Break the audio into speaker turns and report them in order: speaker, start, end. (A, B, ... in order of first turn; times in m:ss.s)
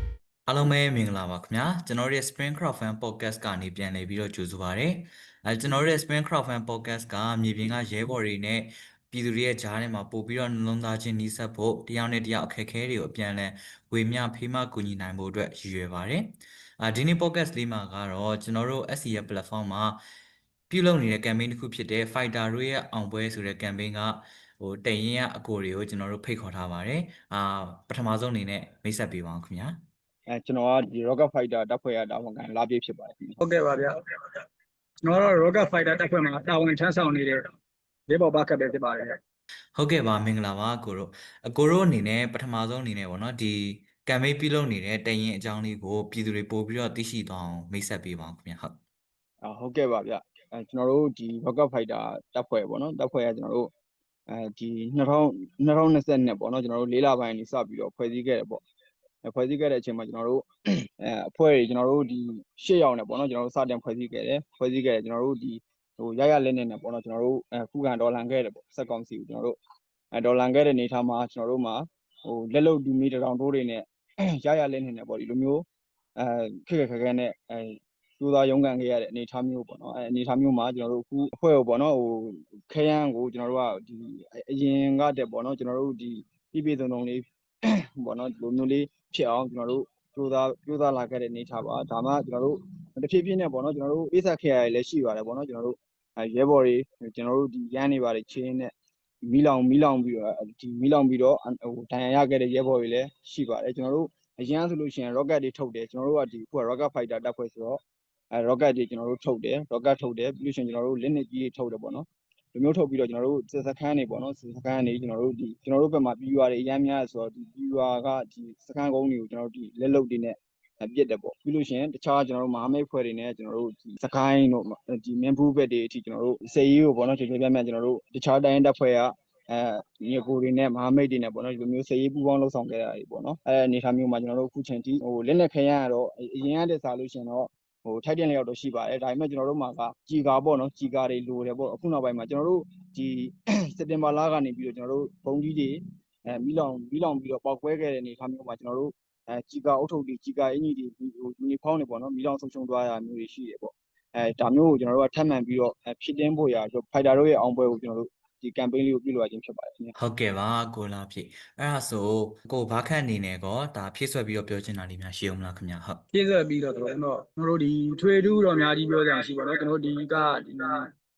0:00.5-0:20.0 A
0:20.7-0:29.8 A
0:30.3-0:33.4 B
0:33.4-0:34.4 C
0:35.0-0:37.4 C
0:38.1-0:39.1 C
0:39.7-0:48.8 A
0:49.4-0:53.7 B
0:54.3-0:58.6 B
0:59.2-1:09.6 B
1:10.1-1:13.8 B
1:14.4-1:15.6 B
1:16.2-1:27.2 B
1:28.0-1:38.7 B
1:39.2-1:47.8 B
1:48.3-2:40.0 B
2:40.0-2:46.0 A
2:46.1-2:50.8 C